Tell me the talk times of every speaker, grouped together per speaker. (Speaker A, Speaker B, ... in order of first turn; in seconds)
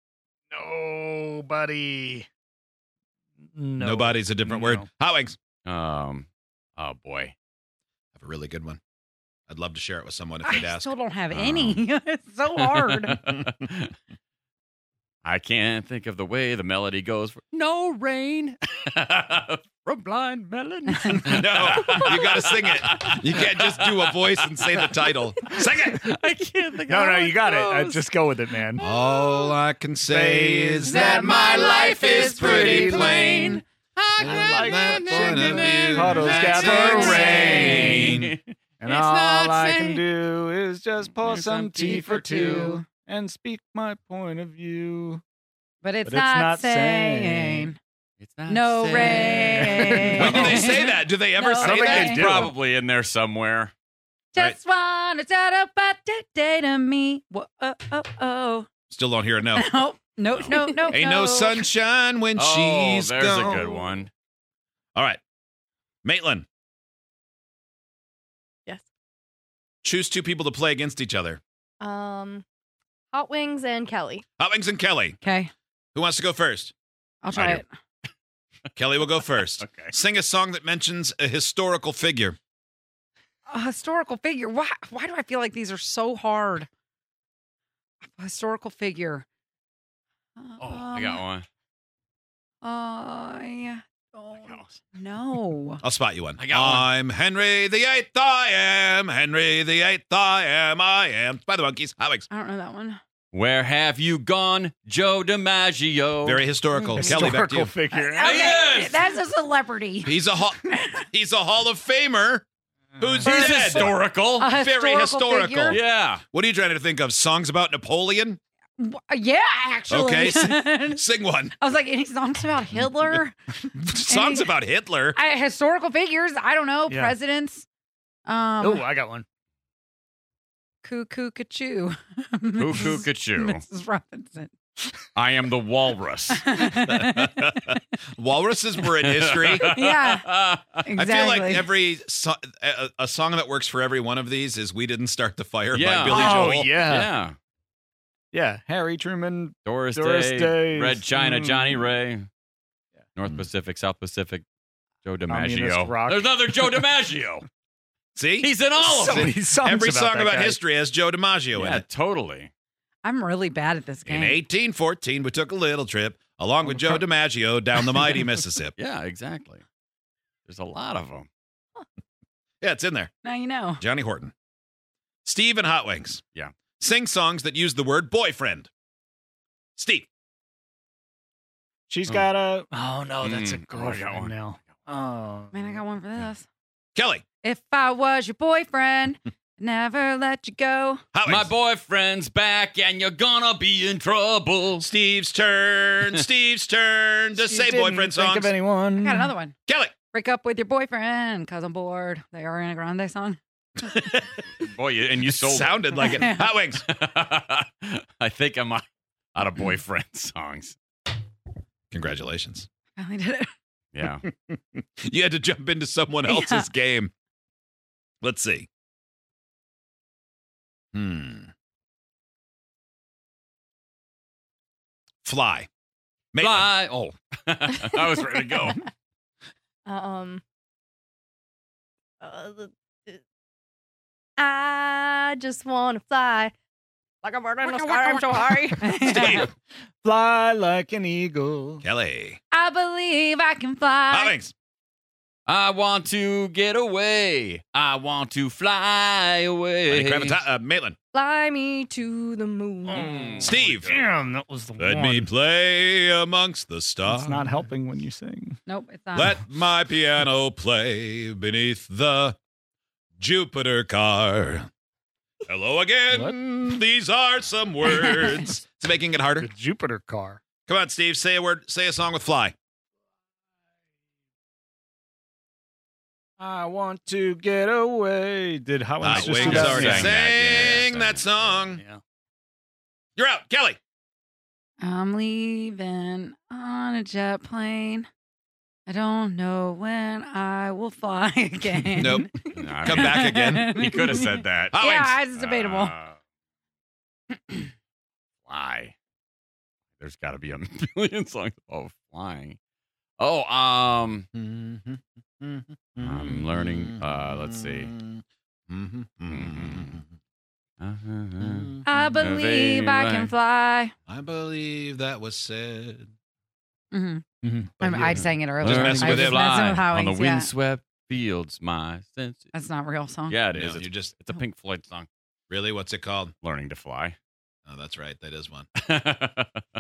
Speaker A: 0.5-2.3, 3.5-4.9, 26.9-28.9, 30.0-31.1, 32.3-33.4, 34.2-38.2, 38.8-45.2, 46.0-47.7, 49.3-50.6, 51.6-52.5, 106.9-108.6, 113.0-113.6, 126.9-127.2, 128.6-129.2, 146.1-147.1, 148.3-151.9, 155.3-156.3, 158.8-160.6, 166.7-167.0, 181.9-185.8, 197.3-199.3, 240.0-241.8, 252.9-255.3, 257.1-258.6, 266.1-266.4, 269.4-270.4, 276.4-280.2, 281.7-282.0, 317.4-318.3
Speaker B: 3.8-5.4, 8.2-8.8, 9.5-11.8, 21.3-26.1, 28.8-33.6, 34.2-38.3, 50.2-52.4, 58.9-59.7, 60.9-63.7, 66.0-66.5, 69.8-71.4, 74.4-75.2, 76.0-76.7, 77.3-77.6, 78.8-82.4, 95.8-102.3, 106.2-107.7, 110.0-112.5, 113.0-113.9, 114.5-118.4, 119.9-121.5, 122.8-123.2, 123.8-125.2, 136.8-139.7, 141.0-146.8, 158.2-161.8, 164.1-168.8, 172.6-173.1, 173.8-174.3, 175.2-176.2, 176.8-178.7, 179.8-180.1, 186.9-187.2, 191.1-191.5, 194.8-198.5, 199.7-199.9, 205.3-206.8, 211.9-212.7, 214.2-217.1, 218.2-218.7, 220.9-221.5, 225.2-225.7, 226.3-226.7, 239.1-239.5, 241.8-242.4, 244.1-244.5, 249.9-251.0, 253.4-254.0, 254.8-257.7, 259.1-262.4, 263.2-264.7, 265.5-269.5, 270.7-272.6, 279.0-281.8, 283.2-283.8, 292.0-292.3, 292.9-293.7, 294.7-295.2, 304.3-310.0, 311.4-311.8, 314.1-316.1, 318.6-319.4, 323.5-324.1, 325.5-326.3, 327.7-328.7
Speaker C: 5.7-7.3, 12.6-13.9, 15.2-25.1, 26.0-28.0, 31.1-40.0, 41.0-42.6, 48.2-50.7, 51.9-53.7, 62.4-64.1, 79.6-79.9, 90.6-91.5, 94.3-94.8, 96.4-96.9, 103.3-106.4, 108.2-109.0, 113.2-114.5, 115.7-116.2, 132.6-133.6, 135.2-136.4, 139.0-140.8, 145.7-147.4, 149.7-152.3, 153.2-154.4, 155.0-157.4, 158.4-159.3, 161.5-162.5, 168.8-169.6, 170.5-171.3, 183.2-184.3, 191.2-194.9, 204.6-206.3, 206.9-208.8, 209.3-210.8, 213.9-214.3, 226.4-228.8, 245.5-250.4, 252.9-253.9, 279.3-281.6, 292.6-294.8, 295.3-296.2, 298.5-298.9, 300.0-302.6, 303.2-304.3, 306.0-307.9, 309.3-310.0, 310.8-313.3, 318.2-322.5, 323.3-325.1, 326.4-327.2, 328.8-329.6
Speaker D: 10.4-13.2, 30.9-33.6, 36.6-38.0, 41.9-42.8, 45.8-47.8, 48.5-52.3, 54.3-58.7, 59.5-61.7, 75.2-75.5, 77.2-77.7, 83.5-86.7, 88.0-89.3, 90.4-91.2, 92.6-95.8, 102.3-103.0, 106.8-107.2, 107.9-111.0, 113.3-113.6, 114.4-115.8, 118.8-121.0, 121.6-123.4, 124.0-124.5, 125.2-127.7, 128.3-128.8, 130.8-134.5, 136.3-137.4, 139.6-140.3, 140.8-141.7, 163.0-164.4, 173.2-173.8, 185.5-186.5, 187.4-191.0, 199.0-199.6, 200.1-203.4, 206.0-206.5, 213.0-213.5, 216.2-216.7, 237.6-239.5, 242.5-244.4, 258.7-259.4, 284.8-288.1, 288.9-295.9, 311.8-313.9, 316.9-317.2, 317.8-320.5, 322.5-323.4
Speaker E: 71.8-72.5, 73.1-74.2, 229.9-230.4, 232.2-233.2, 234.4-236.5, 237.2-238.9, 251.1-253.0